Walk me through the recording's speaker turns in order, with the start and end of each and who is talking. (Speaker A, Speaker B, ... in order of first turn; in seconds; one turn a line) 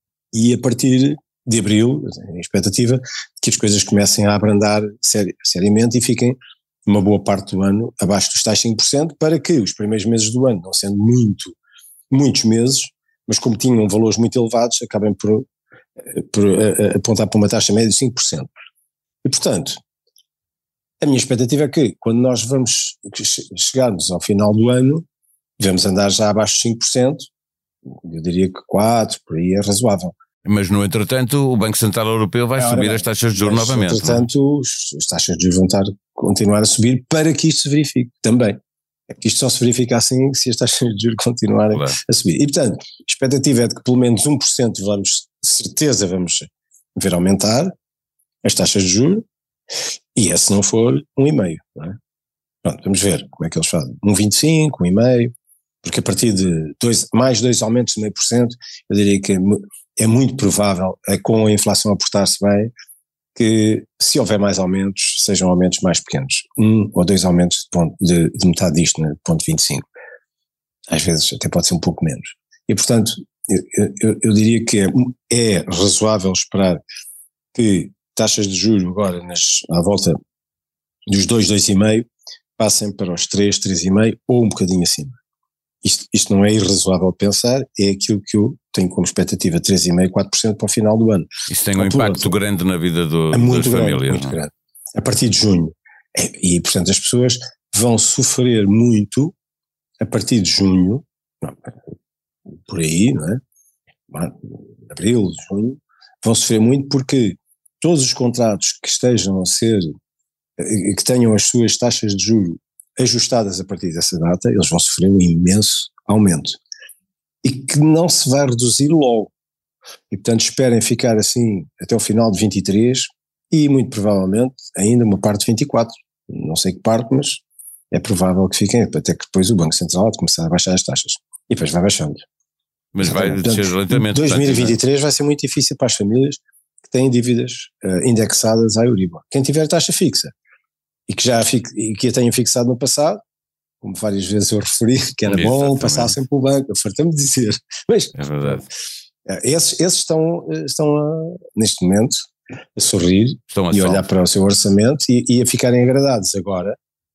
Speaker A: 0.3-11.6
Speaker A: 12.1-15.5
Speaker A: 16.1-18.5
Speaker A: 19.2-19.8
Speaker A: 21.0-25.0
Speaker A: 25.6-27.2
Speaker A: 28.0-30.1
Speaker B: 30.4-34.3
Speaker A: 32.6-38.6
Speaker A: 39.1-47.7
Speaker A: 48.4-49.2
Speaker A: 50.1-52.0
Speaker A: 52.6-55.3
Speaker A: 55.8-62.7
Speaker A: 63.4-69.8
Speaker A: 70.9-76.8
Speaker A: 77.5-80.2
Speaker A: 81.1-85.2
Speaker A: 85.8-92.3
Speaker B: 91.5-94.4
Speaker A: 93.3-99.3
Speaker A: 100.0-101.7
Speaker A: 102.7-103.4
Speaker A: 104.1-109.8
Speaker A: 110.6-116.6
Speaker A: 117.4-119.3
Speaker A: 120.1-132.2
Speaker B: 132.9-134.8
Speaker A: 133.0-140.3
Speaker A: 141.1-143.2
Speaker A: 143.8-148.6
Speaker B: 145.3-146.2
Speaker B: 148.2-148.6
Speaker A: 149.2-156.8
Speaker B: 153.5-154.0